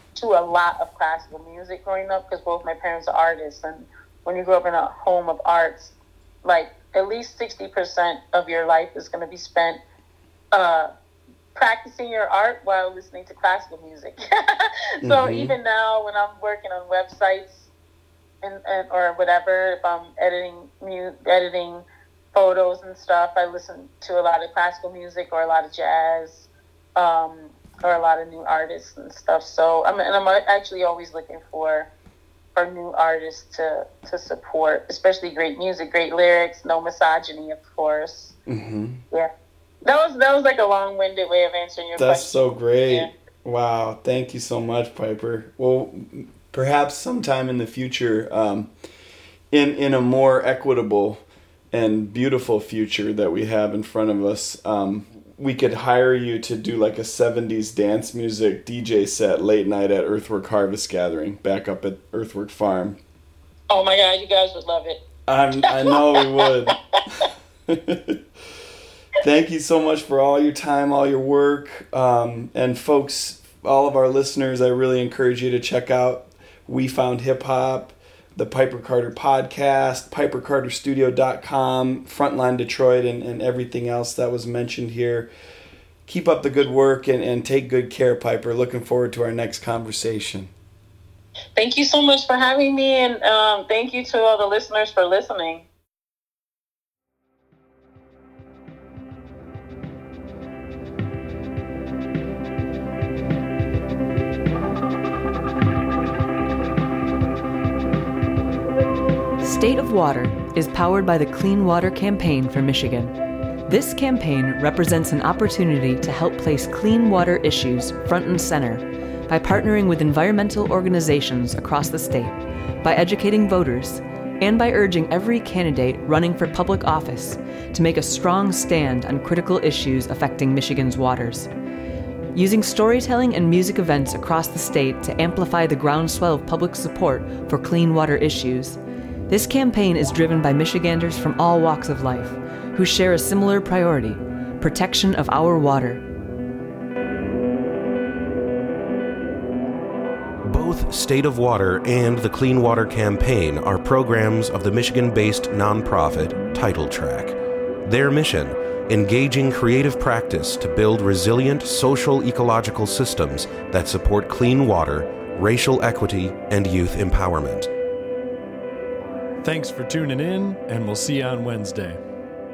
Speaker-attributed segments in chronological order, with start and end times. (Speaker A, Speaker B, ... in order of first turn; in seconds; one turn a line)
Speaker A: 0.1-9.8
Speaker A: 10.5-10.9
Speaker A: 11.5-17.7
Speaker B: 15.0-15.5
Speaker A: 18.4-31.9
Speaker A: 32.5-38.3
Speaker B: 38.5-39.0
Speaker A: 39.8-43.1
Speaker B: 42.0-48.7
Speaker B: 49.5-63.0
Speaker A: 63.7-65.0
Speaker B: 65.3-68.2
Speaker A: 65.7-67.3
Speaker B: 69.2-85.3
Speaker B: 86.1-90.5
Speaker A: 91.5-95.6
Speaker C: 109.4-113.1
Speaker C: 113.7-131.5
Speaker C: 132.3-146.0
Speaker D: 150.4-167.7
Speaker E: 169.4-172.0